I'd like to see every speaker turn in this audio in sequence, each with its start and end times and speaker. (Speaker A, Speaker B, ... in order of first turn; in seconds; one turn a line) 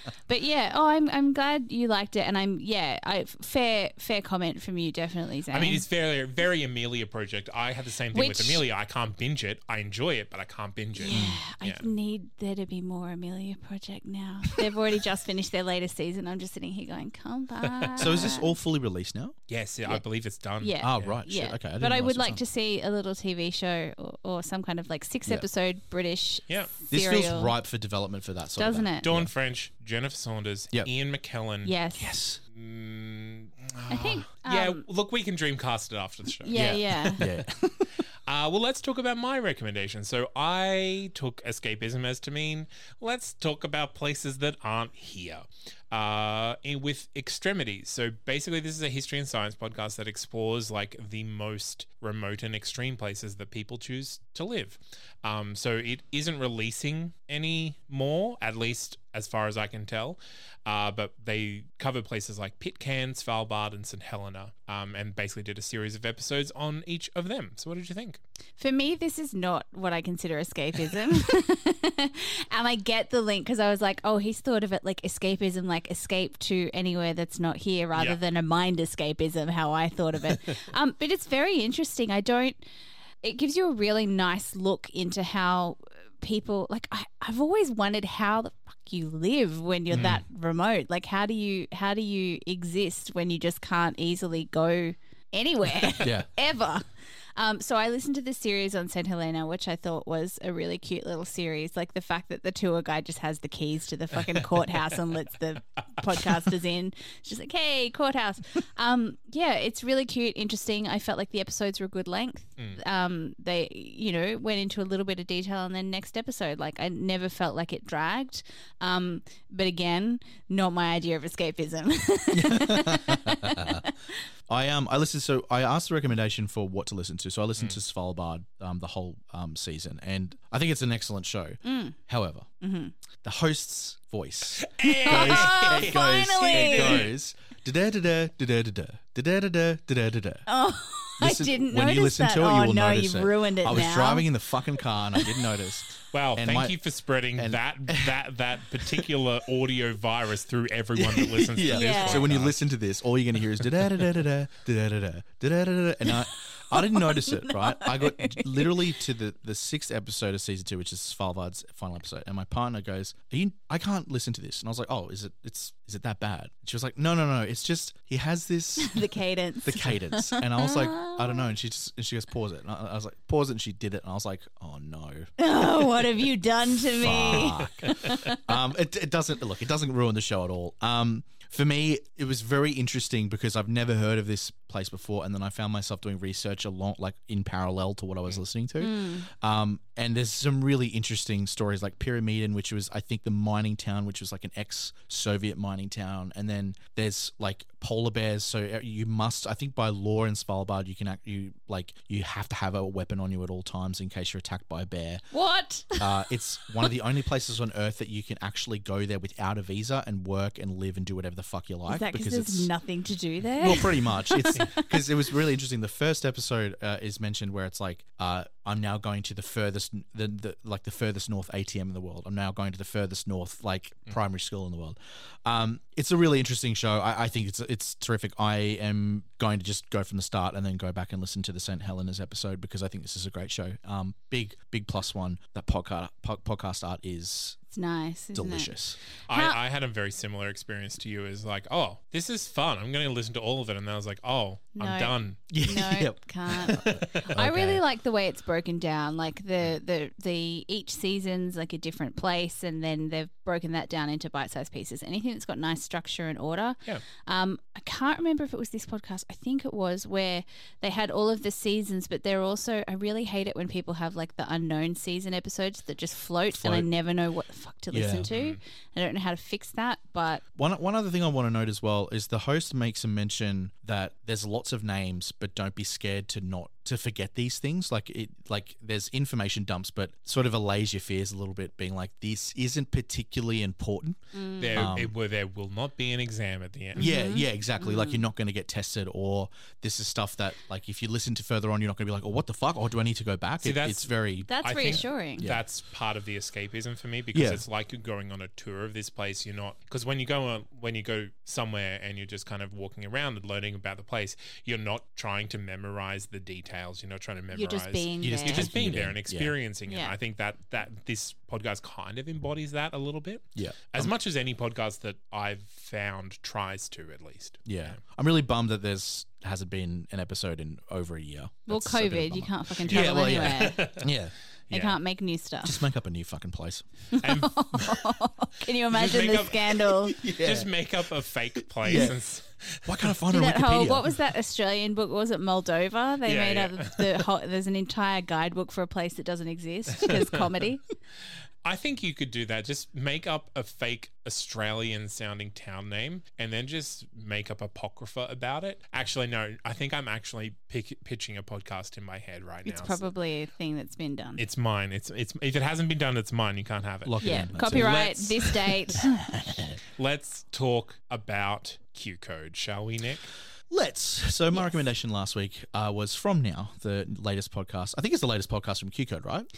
Speaker A: 0.3-5.8
Speaker B: 5.5-11.9
Speaker A: 8.1-8.6
Speaker A: 11.0-18.6
Speaker C: 11.1-11.4
Speaker B: 17.6-18.4
Speaker C: 18.0-19.4
Speaker B: 19.5-21.2
Speaker A: 20.6-27.5
Speaker C: 20.8-22.4
Speaker B: 26.5-26.7
Speaker C: 26.9-29.3
Speaker A: 28.6-29.1
Speaker B: 29.0-31.7
Speaker A: 31.6-32.1
Speaker C: 32.0-32.4
Speaker B: 32.5-37.2
Speaker A: 33.9-34.9
Speaker A: 36.4-37.2
Speaker C: 36.5-37.9
Speaker B: 38.3-68.2
Speaker A: 68.6-82.6
Speaker A: 83.2-124.2
Speaker B: 89.9-90.2
Speaker C: 96.0-96.3
Speaker C: 122.3-123.9
Speaker C: 124.5-132.5
Speaker A: 131.6-132.0
Speaker A: 132.6-132.9
Speaker C: 133.2-140.5
Speaker B: 134.6-137.1
Speaker A: 135.1-137.1
Speaker A: 140.5-144.3
Speaker C: 141.2-146.8
Speaker B: 146.1-152.6
Speaker C: 147.4-148.2
Speaker C: 151.0-169.1
Speaker A: 151.7-152.2
Speaker B: 153.6-154.1
Speaker A: 156.3-158.8
Speaker A: 168.8-171.5
Speaker C: 169.6-175.3
Speaker A: 175.4-178.4
Speaker C: 176.8-205.2
Speaker B: 177.8-178.1
Speaker A: 188.8-189.3
Speaker A: 205.3-206.1
Speaker C: 206.0-212.7
Speaker A: 211.9-214.8
Speaker C: 213.6-237.6
Speaker A: 237.7-238.7
Speaker C: 238.3-239.0
Speaker B: 239.3-245.4
Speaker A: 239.3-239.6
Speaker A: 244.8-270.4
Speaker C: 245.5-247.8
Speaker B: 246.8-247.1
Speaker C: 266.5-266.9
Speaker C: 267.9-268.3
Speaker B: 268.3-268.6
Speaker C: 270.6-284.2
Speaker A: 284.3-284.8
Speaker B: 284.6-287.0
Speaker C: 284.7-285.1
Speaker A: 287.0-288.2
Speaker C: 287.0-295.6
Speaker B: 293.6-294.1
Speaker A: 294.5-295.5
Speaker B: 294.6-318.0
Speaker C: 297.3-297.6
Speaker A: 307.5-308.7
Speaker C: 308.2-309.6
Speaker A: 309.9-310.1
Speaker C: 313.6-314.1
Speaker C: 317.6-324.4
Speaker A: 321.7-323.9
Speaker B: 322.9-324.1
Speaker B: 324.7-325.0
Speaker A: 324.7-325.8
Speaker C: 325.6-326.8
Speaker A: 327.1-330.2
Speaker B: 327.2-328.0
Speaker B: 328.9-333.1
Speaker C: 330.2-330.7
Speaker C: 331.8-332.2
Speaker C: 332.9-334.2
Speaker A: 333.3-340.8
Speaker B: 336.2-337.2
Speaker B: 341.6-353.0
Speaker A: 352.6-354.4
Speaker B: 354.4-358.6
Speaker C: 357.1-358.0
Speaker A: 357.2-359.1
Speaker C: 358.9-359.8
Speaker B: 360.0-363.3
Speaker C: 363.7-369.5
Speaker A: 364.5-364.8